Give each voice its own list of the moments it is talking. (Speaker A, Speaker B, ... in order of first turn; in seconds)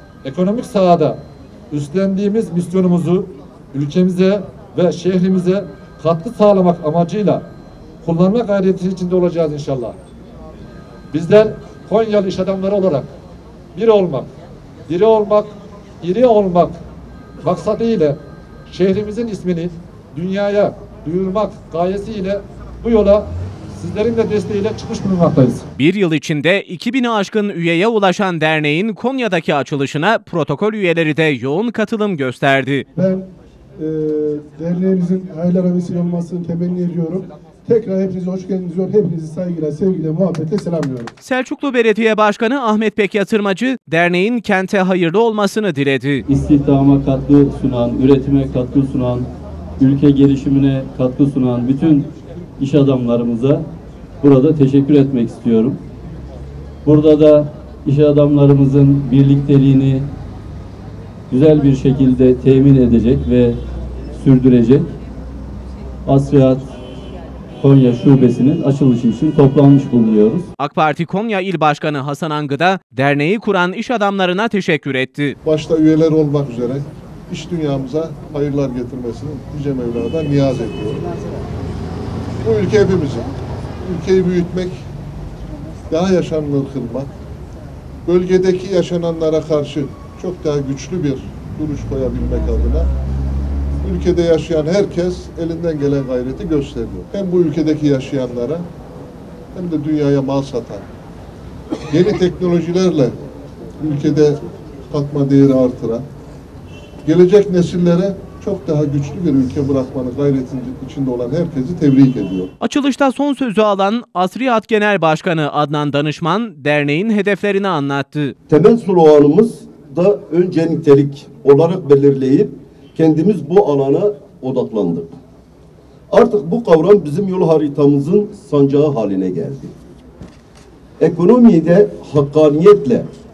Speaker A: 0.2-1.2, 1.7-7.5, 8.0-10.0, 11.1-13.1, 13.7-14.3, 14.9-16.8, 17.4-25.7
Speaker B: 25.8-32.9, 41.2-46.2, 70.6-75.4, 112.6-118.3
Speaker C: 33.0-33.2, 33.8-41.1
Speaker D: 46.3-49.3, 49.8-52.1, 52.6-53.7, 54.2-55.8, 56.9-60.1, 61.3-63.6, 64.2-64.9, 66.1-66.7, 67.6-70.5
Speaker E: 75.4-81.1, 82.4-83.3, 83.8-84.8, 85.9-87.1, 88.0-92.9, 93.8-98.7, 99.5-100.9, 101.9-103.1, 103.8-106.0, 107.0-112.5
Speaker F: 118.5-125.1, 126.1-129.7, 131.0-133.1